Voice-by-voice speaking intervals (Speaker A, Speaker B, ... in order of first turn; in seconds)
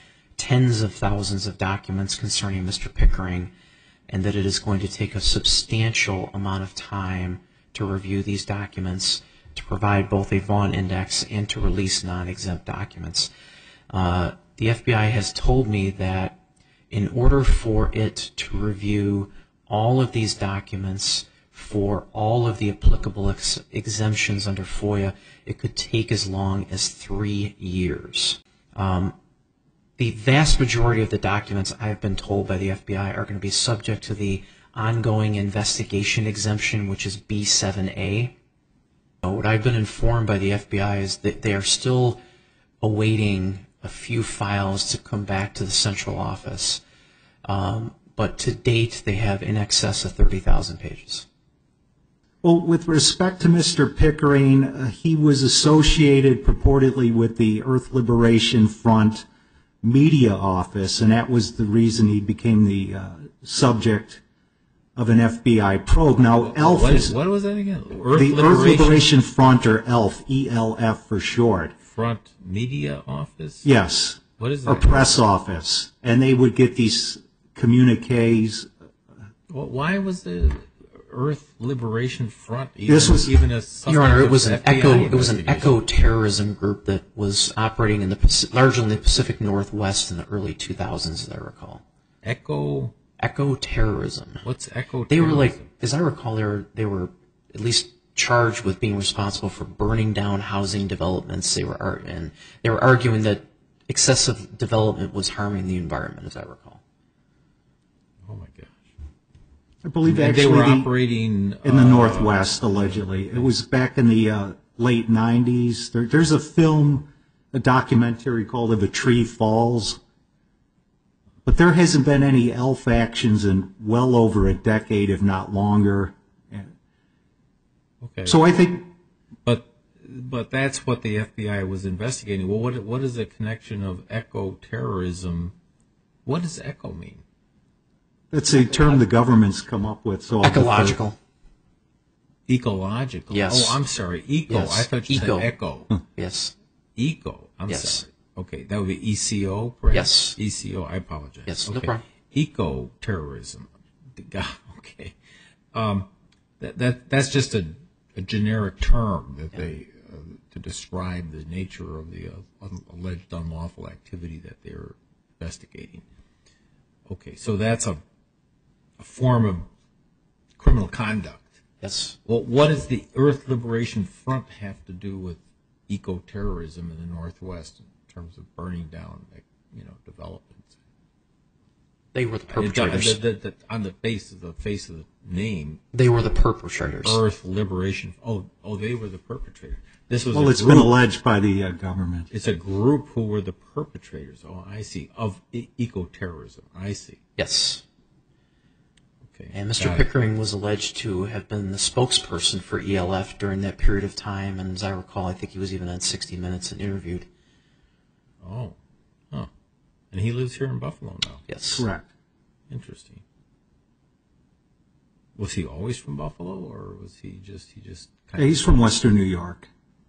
Speaker A: 0.4-3.5, 4.1-13.3, 13.9-16.4, 16.9-29.1, 30.0-38.3, 39.2-42.2, 42.8-46.8, 47.5-51.2, 83.9-91.8, 93.2-94.4, 95.1-106.8, 138.6-139.0, 140.4-141.2, 143.3-143.8, 144.5-145.5, 146.1-146.5, 147.7-148.0, 149.9-150.4, 151.5-152.0, 171.8-172.2, 182.1-183.2, 185.9-187.2, 197.4-197.8, 199.5-207.3, 211.5-211.8
Speaker B: 52.4-59.2, 59.8-64.2, 65.0-67.1, 68.1-71.7, 73.6-78.7, 82.9-83.3, 109.8-110.9, 111.6-120.0, 121.4-126.7, 128.2-128.9, 138.3-141.0, 190.3-192.3, 211.7-212.1, 218.4-219.7
Speaker C: 66.4-69.1, 71.8-73.7, 74.4-75.1, 79.5-85.8, 92.2-92.9, 94.4-95.6, 108.2-108.8, 110.0-113.5, 128.0-128.4, 129.4-135.5, 136.2-137.2, 142.5-145.9, 147.0-155.2, 155.7-156.1, 156.6-166.0, 167.1-168.0, 169.0-169.7, 170.6-171.6, 172.2-180.7, 182.5-185.8, 187.0-190.9, 192.3-197.2, 199.3-200.1, 208.4-208.8, 210.1-211.4, 212.7-213.2, 215.3-218.8